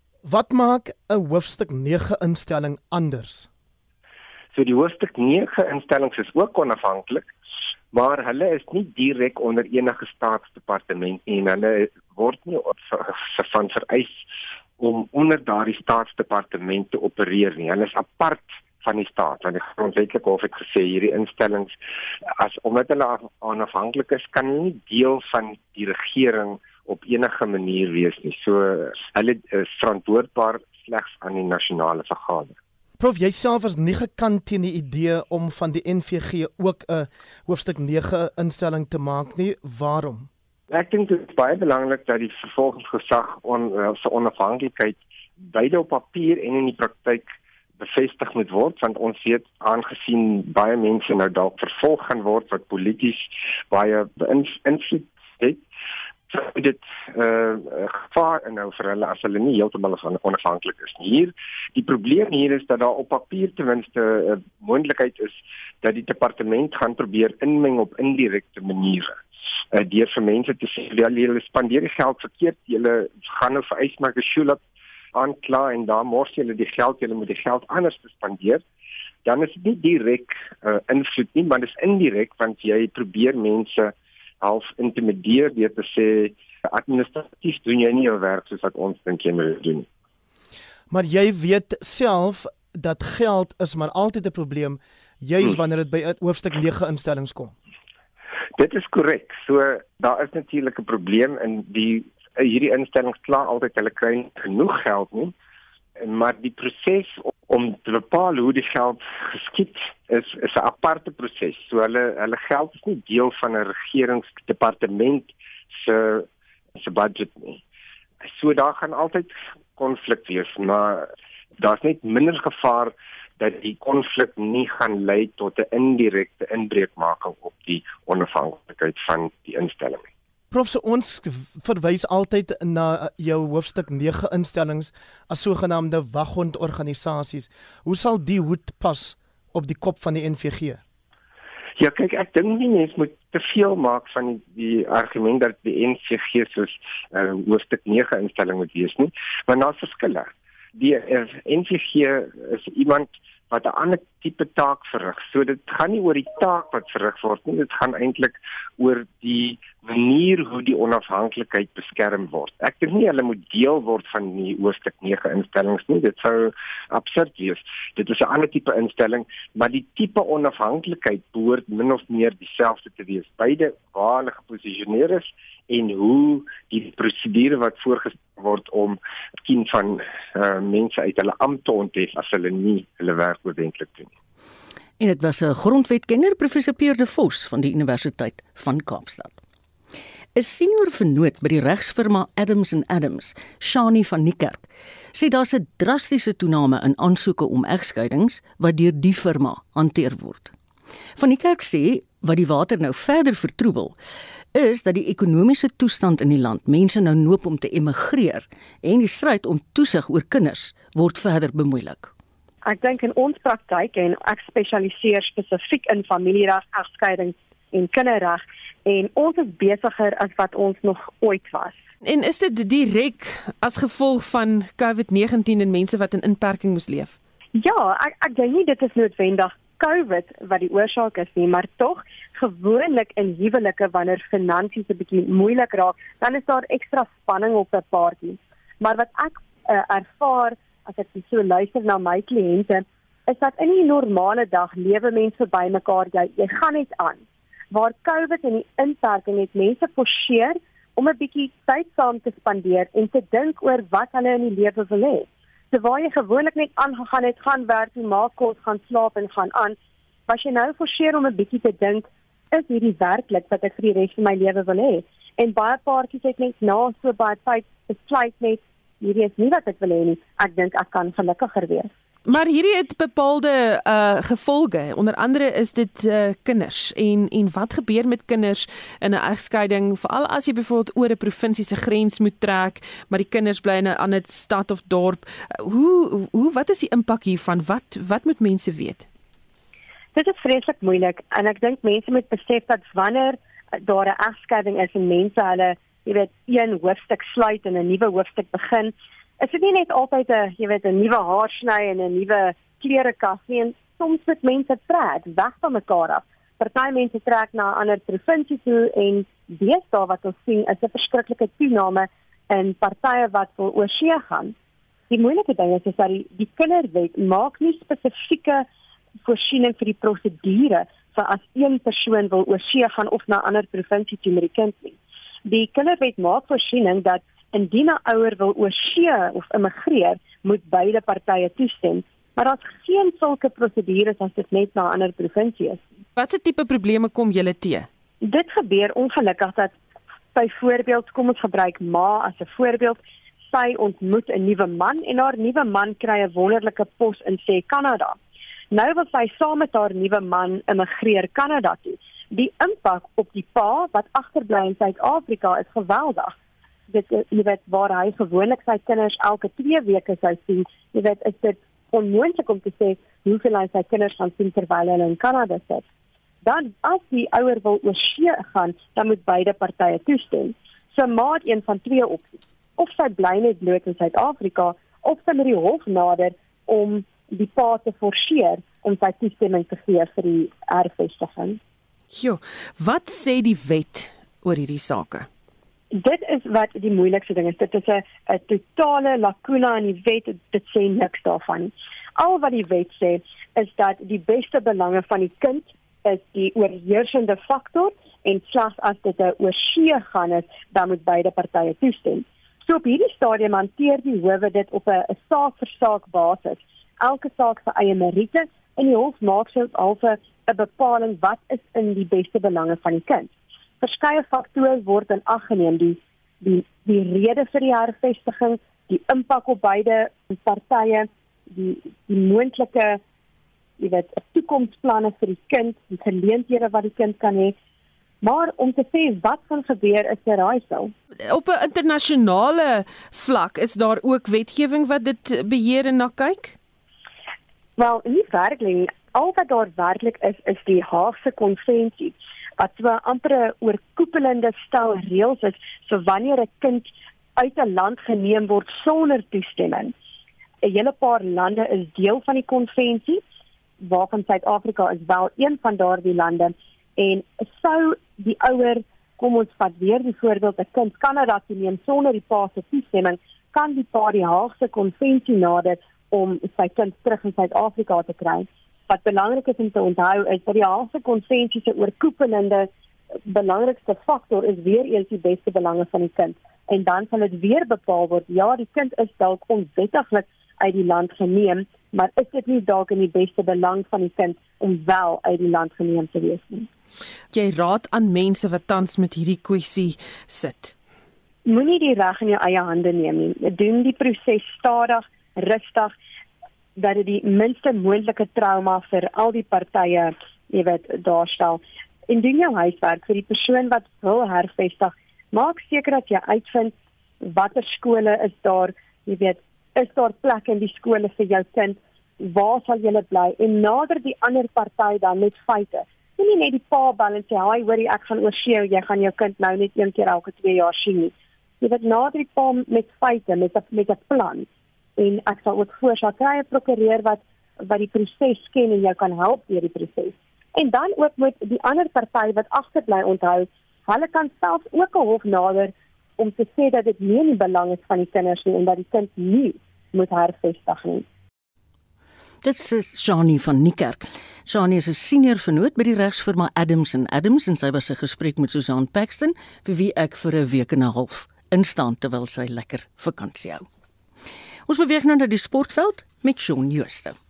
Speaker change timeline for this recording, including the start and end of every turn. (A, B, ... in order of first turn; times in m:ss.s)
0:00.2-0:03.5 A
0:04.5-0:07.3 B
0:07.9-0:14.2 B
0:14.8-0:21.8 B
0:22.4-0:32.6 B
0:33.0-0:40.3 A
0:40.7-0:47.3 B
0:47.8-0:55.6 B
0:56.3-1:09.2 B
1:09.7-1:14.6 B
1:15.2-1:18.6 B
1:19.2-1:29.9 B
1:30.9-1:37.5 A
1:38.6-1:45.3 B
1:46.0-1:56.3 B
1:56.8-1:57.6 B
1:58.3-2:01.1 B
2:01.6-2:10.1 B
2:10.5-2:20.8 A
2:21.8-3:04.1 B
3:05.0-3:09.4 C
3:10.4-3:20.5 C
3:21.2-3:24.0 C
3:24.5-3:32.1 C
3:32.6-3:41.8 D
3:42.0-3:47.2 E
3:47.6-4:19.8 D
4:20.3-4:31.9 D
4:32.3-4:49.1 E
4:50.2-5:14.5 D
5:15.1-5:18.6 D
5:19.2-5:35.8 D
5:36.2-5:37.9 E
5:38.2-5:39.8 D
5:40.3-5:43.0 D
5:43.5-5:48.2 D
5:48.7-5:56.3 D
5:56.9-6:05.8 D
6:06.4-6:21.6 D
6:22.1-6:25.3 E
6:25.9-6:53.3 D
6:53.8-7:03.0 D
7:03.8-7:07.6 D
7:08.2-7:10.9 D
7:11.3-7:16.6 E
7:17.8-7:29.9 D
7:30.6-7:33.2 D
7:33.8-7:52.7 D
7:53.3-8:06.7 D
8:07.3-8:10.7 E
8:11.5-8:15.9 D
8:16.8-9:01.0 D
9:02.4-9:13.7 C
9:14.7-9:17.2 C